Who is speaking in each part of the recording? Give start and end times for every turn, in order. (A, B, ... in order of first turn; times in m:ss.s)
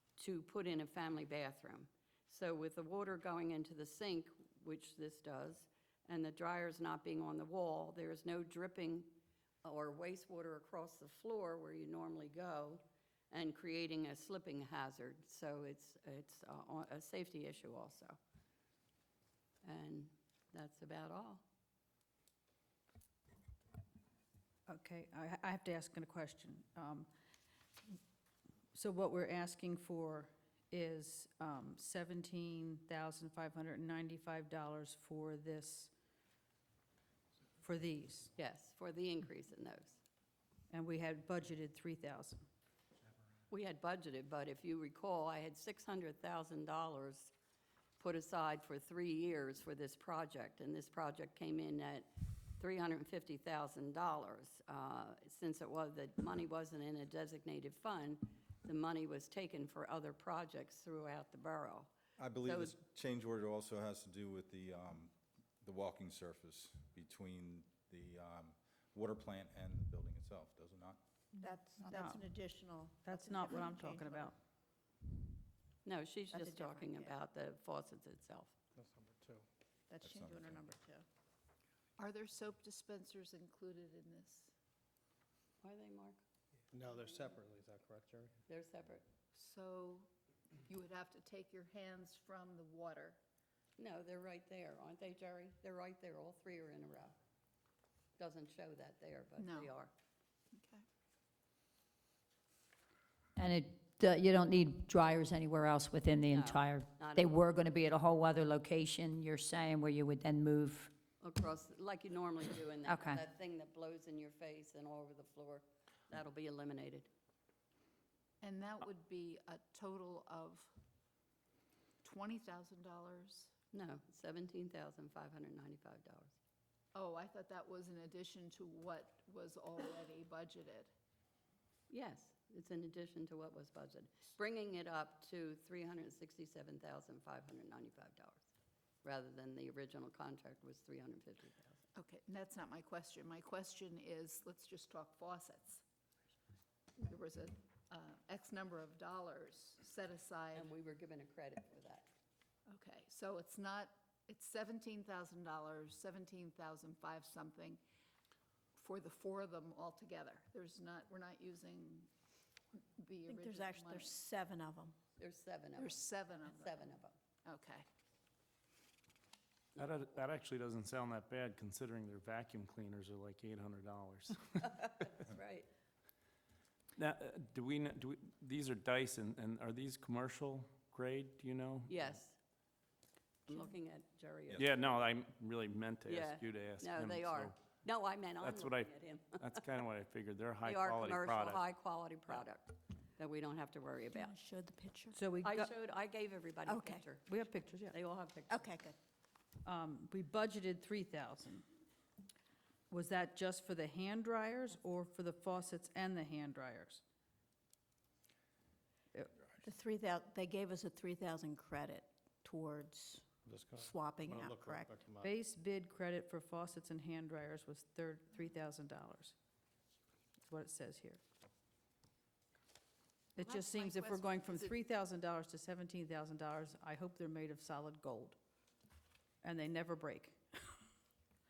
0:00.2-0:18.2 A
0:19.6-0:21.4 A
0:24.7-0:27.1 B
0:28.7-0:35.9 B
0:37.6-0:38.3 B
0:38.4-0:40.0 A
0:40.7-0:42.5 B
0:43.5-0:47.3 A
0:48.0-1:02.8 A
1:02.2-1:11.0 C
1:11.4-1:14.3 D
1:11.8-1:12.3 B
1:13.0-1:14.4 B
1:15.8-1:18.6 A
1:16.3-1:17.1 D
1:18.8-1:19.5 E
1:19.9-1:21.0 D
1:20.0-1:20.7 C
1:22.0-1:24.5 F
1:25.6-1:26.2 A
1:26.7-1:28.4 E
1:28.5-1:29.0 A
1:29.4-1:30.1 F
1:30.7-1:33.2 F
1:33.8-1:37.2 A
1:38.2-1:39.9 A
1:39.4-1:39.7 F
1:40.6-1:40.8 F
1:43.4-1:50.9 G
1:46.3-1:47.6 A
1:51.2-1:57.1 A
1:52.9-1:53.2 G
1:58.4-2:00.7 F
2:02.0-2:03.5 F
2:03.7-2:06.4 A
2:07.0-2:10.9 F
2:11.9-2:18.4 A
2:19.0-2:21.8 A
2:22.0-2:25.8 F
2:27.0-2:30.7 F
2:30.6-2:32.1 A
2:32.7-2:37.8 F
2:38.8-2:42.1 F
2:42.8-2:44.2 F
2:43.3-2:45.0 D
2:45.2-2:47.2 A
2:45.8-2:46.9 F
2:47.4-2:47.8 F
2:49.8-2:54.8 H
2:54.6-2:55.7 A
2:57.0-3:02.0 H
3:01.9-3:02.4 A
3:03.5-3:04.7 A
3:04.6-3:07.6 H
3:06.1-3:09.4 A
3:08.4-3:11.6 H
3:10.6-3:14.4 A
3:14.2-3:15.2 D
3:15.2-3:15.7 B
3:15.4-3:17.3 A
3:16.7-3:17.0 D
3:17.2-3:18.0 B
3:17.9-3:18.8 A
3:18.5-3:19.0 D
3:19.6-3:21.6 B
3:22.9-3:27.0 B
3:29.6-3:35.0 D
3:33.5-3:35.3 E
3:35.2-3:39.4 B
3:40.5-3:41.2 B
3:43.4-3:48.4 B
3:43.4-3:44.7 F
3:49.4-3:50.8 B